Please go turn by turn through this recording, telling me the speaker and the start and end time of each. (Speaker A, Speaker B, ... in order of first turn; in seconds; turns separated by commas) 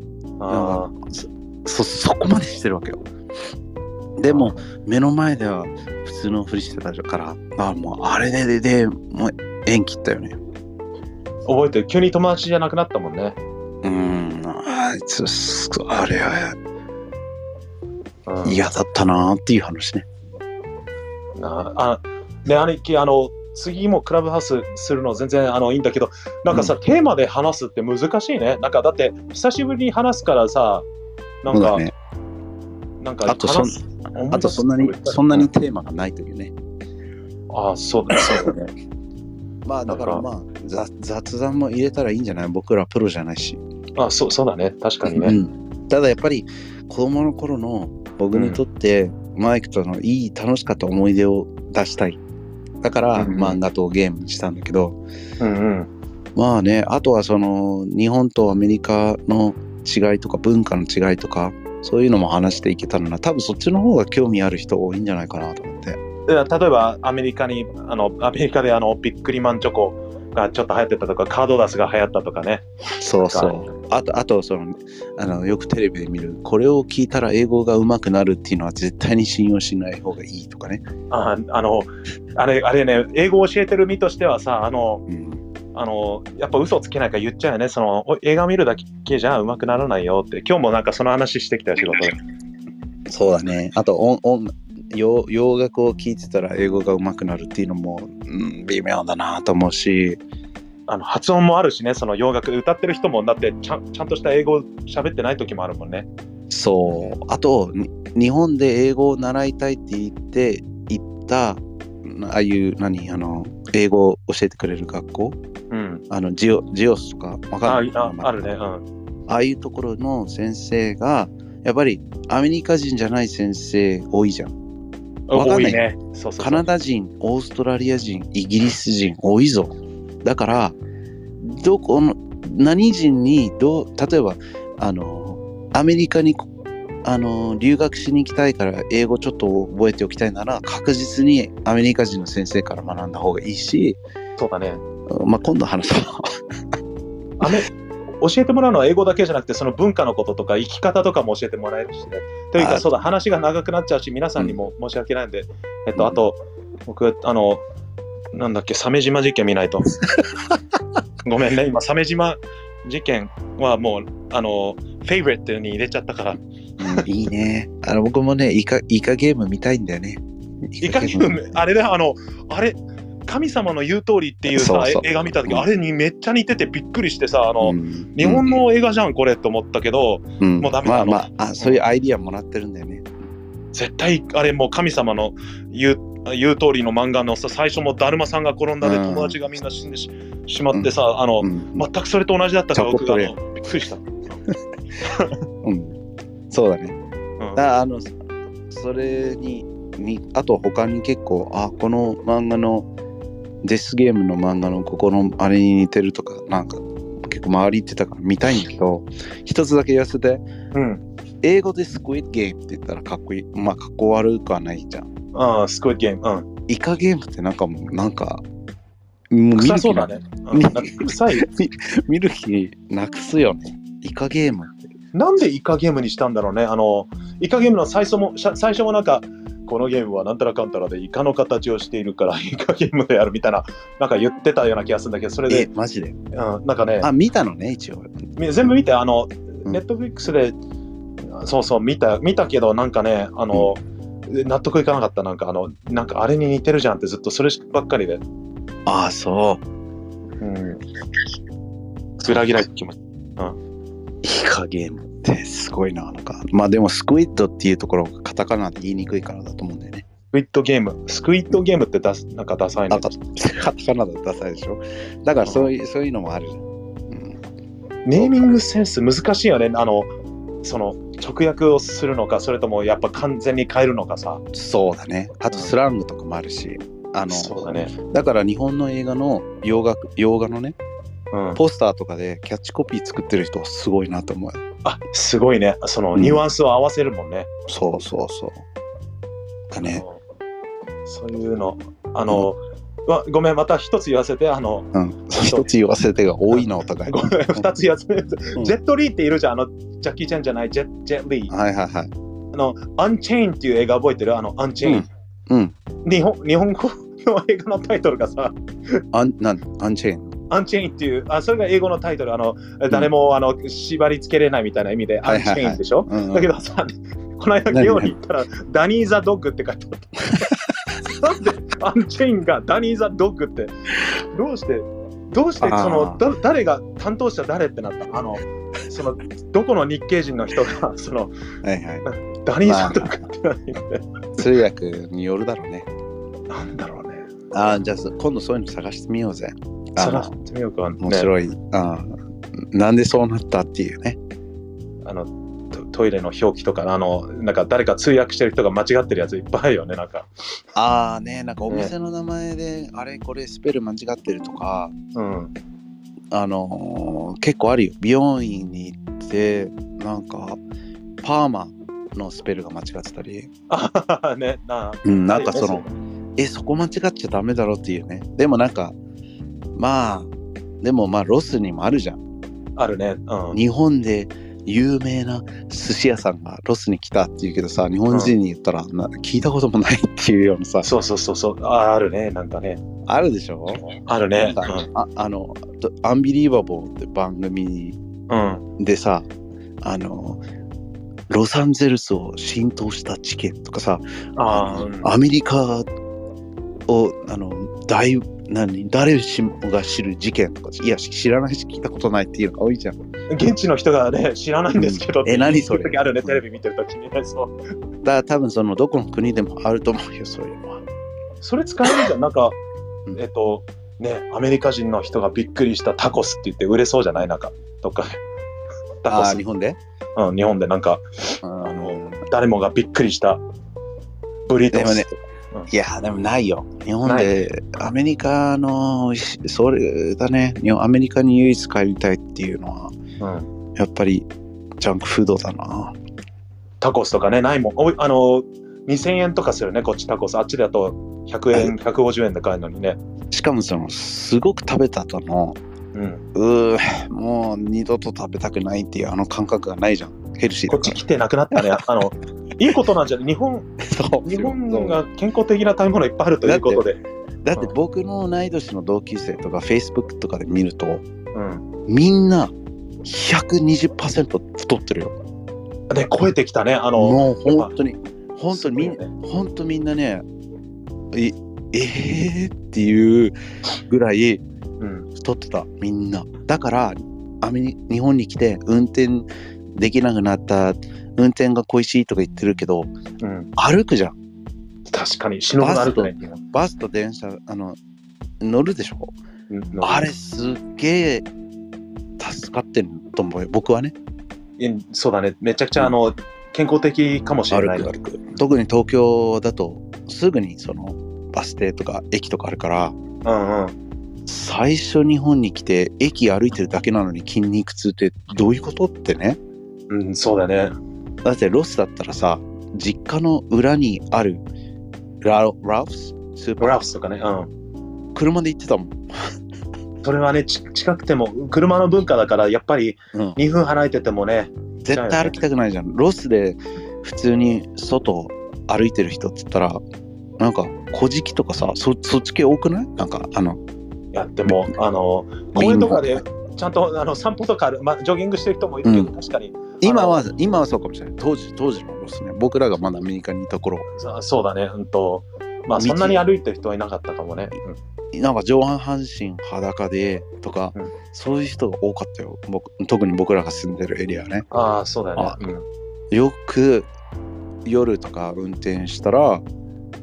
Speaker A: 0.4-0.9, Speaker B: 0.5-3.0, Speaker B: 4.2-10.4, Speaker A: 4.3-4.6, Speaker A: 11.5-13.4, Speaker B: 13.8-16.6, Speaker A: 18.3-18.6, Speaker B: 18.4-20.1, Speaker A: 21.4-30.9, Speaker A: 31.4-31.8, Speaker B: 31.5-31.9, Speaker A: 33.0-35.5, Speaker B: 33.2-36.5, Speaker A: 37.5-38.6, Speaker B: 38.1-38.7, Speaker B: 39.6-43.6, Speaker A: 39.9-40.2, Speaker A: 44.0-45.4, Speaker B: 45.0-52.2, Speaker A: 48.3-48.6, Speaker B: 52.8-55.0, Speaker A: 53.1-53.6, Speaker A: 55.4-55.9, Speaker B: 56.4-66.0, Speaker A: 66.3-72.7, Speaker B: 73.0-80.8, Speaker A: 73.3-73.7, Speaker A: 81.1-85.0, Speaker B: 85.1-85.4, Speaker A: 85.7-92.2, Speaker B: 93.1-100.2, Speaker A: 100.9-106.1, Speaker B: 106.5-115.4, Speaker A: 115.7-116.0, Speaker B: 116.1-118.5, Speaker A: 117.6-118.8, Speaker B: 119.3-124.5, Speaker A: 125.3-126.7, Speaker B: 125.3-125.8, Speaker B: 126.4-130.8, Speaker B: 131.4-136.5, Speaker B: 137.0-144.0, Speaker A: 144.4-144.8, Speaker B: 145.1-146.3, Speaker A: 147.4-157.6, Speaker B: 152.6-152.8, Speaker A: 158.3-160.0, Speaker A: 161.2-167.0, Speaker B: 166.8-171.4, Speaker A: 170.8-181.8, Speaker B: 174.5-175.7, Speaker B: 177.6-178.5, Speaker B: 180.4-183.1, Speaker A: 183.7-194.1, Speaker B: 188.8-189.4, Speaker B: 190.7-191.8, Speaker B: 192.7-193.3, Speaker A: 195.0-195.3, Speaker B: 195.6-196.0, Speaker B: 196.5-196.9, Speaker B: 197.6-198.1, Speaker B: 198.7-202.9, Speaker B: 203.6-210.4, Speaker A: 210.7-211.0, Speaker B: 211.4-215.1, Speaker A: 215.3-216.4, Speaker B: 216.7-218.4, Speaker B: 219.3-224.8, Speaker A: 219.6-221.4, Speaker A: 225.1-235.7, Speaker B: 235.5-236.2, Speaker A: 236.3-237.1, Speaker B: 237.0-238.2, Speaker A: 238.3-240.6, Speaker A: 241.2-248.2, Speaker B: 248.8-249.6, Speaker A: 250.4-250.8, Speaker A: 252.2-253.6, Speaker B: 254.2-260.0, Speaker A: 260.3-263.1, Speaker B: 262.9-267.4, Speaker A: 265.4-265.7, Speaker A: 268.0-270.1, Speaker B: 268.1-268.4, Speaker A: 270.6-274.4, Speaker B: 274.5-280.8, Speaker A: 277.3-277.9, Speaker A: 281.3-281.6, Speaker B: 281.6-284.6, Speaker A: 284.8-287.5, Speaker B: 286.1-286.4, Speaker B: 287.7-288.6, Speaker B: 289.7-290.0, Speaker A: 289.8-290.2, Speaker A: 291.1-294.9, Speaker B: 294.9-297.7, Speaker A: 295.4-295.7, Speaker A: 296.5-301.5, Speaker B: 301.5-302.1, Speaker A: 302.5-305.1, Speaker B: 304.8-305.7, Speaker A: 306.0-309.0, Speaker B: 309.1-310.3, Speaker A: 310.5-320.5, Speaker B: 315.2-316.5, Speaker B: 317.7-318.1, Speaker B: 320.4-320.9, Speaker A: 321.0-331.3, Speaker B: 325.6-326.2, Speaker B: 331.6-332.0, Speaker A: 332.1-334.0, Speaker B: 332.6-333.1, Speaker B: 334.4-335.9, Speaker A: 336.5-337.3, Speaker B: 337.5-340.3, Speaker A: 340.0-341.3, Speaker B: 341.0-344.2, Speaker A: 345.0-350.3, Speaker B: 350.7-354.9, Speaker A: 355.1-355.5, Speaker B: 356.3-360.6, Speaker B: 361.2-363.5, Speaker A: 363.7-365.9, Speaker B: 365.0-365.8, Speaker B: 366.4-368.9, Speaker B: 369.7-372.2, Speaker A: 372.8-373.6, Speaker B: 373.5-380.9, Speaker A: 380.8-382.8, Speaker B: 383.1-388.0, Speaker A: 383.9-384.9, Speaker A: 388.3-388.6, Speaker B: 388.8-389.3, Speaker B: 389.8-390.4, Speaker B: 391.3-395.9, Speaker A: 394.4-395.1, Speaker B: 396.9-402.9, Speaker A: 403.3-407.5, Speaker B: 404.7-406.4, Speaker B: 408.0-410.8, Speaker A: 411.4-412.6, Speaker A: 413.1-418.2, Speaker A: 419.0-419.4, Speaker B: 419.1-419.8, Speaker A: 420.2-423.4, Speaker B: 421.4-422.2, Speaker A: 424.5-425.7, Speaker B: 424.7-425.1, Speaker B: 425.7-432.9, Speaker A: 427.0-427.4, Speaker A: 433.2-433.5, Speaker B: 433.8-434.3, Speaker B: 434.8-435.9, Speaker A: 436.8-443.0, Speaker B: 443.3-445.6, Speaker A: 445.9-446.2, Speaker B: 446.3-451.0, Speaker A: 450.7-453.7, Speaker B: 451.5-451.8, Speaker B: 453.8-455.0, Speaker A: 454.2-457.0, Speaker B: 456.4-456.8, Speaker B: 457.4-461.0, Speaker A: 461.3-461.6, Speaker B: 461.9-462.5, Speaker B: 463.0-465.1, Speaker A: 465.9-467.7, Speaker B: 467.0-470.2, Speaker A: 468.5-469.1, Speaker B: 471.1-474.4, Speaker A: 474.8-475.1, Speaker B: 475.1-482.9, Speaker A: 483.2-483.5, Speaker B: 483.6-484.1, Speaker A: 484.9-486.4, Speaker B: 485.6-487.8, Speaker B: 488.4-489.1, Speaker A: 489.5-490.1, Speaker B: 489.8-491.3, Speaker B: 492.2-493.9, Speaker A: 494.6-498.0, Speaker B: 497.5-503.0, Speaker A: 503.2-503.7, Speaker B: 504.3-509.4, Speaker A: 509.9-510.7, Speaker B: 511.2-514.4, Speaker B: 515.2-516.8, Speaker A: 516.6-517.5, Speaker B: 518.1-519.3, Speaker A: 520.0-525.4, Speaker B: 524.8-529.8, Speaker B: 530.4-533.6, Speaker A: 534.1-540.3, Speaker B: 535.5-536.1, Speaker B: 538.8-539.1, Speaker B: 539.8-543.9, Speaker A: 543.9-547.8, Speaker B: 545.8-546.2, Speaker B: 548.1-554.5, Speaker A: 554.5-555.6, Speaker B: 556.1-556.9, Speaker B: 557.6-559.4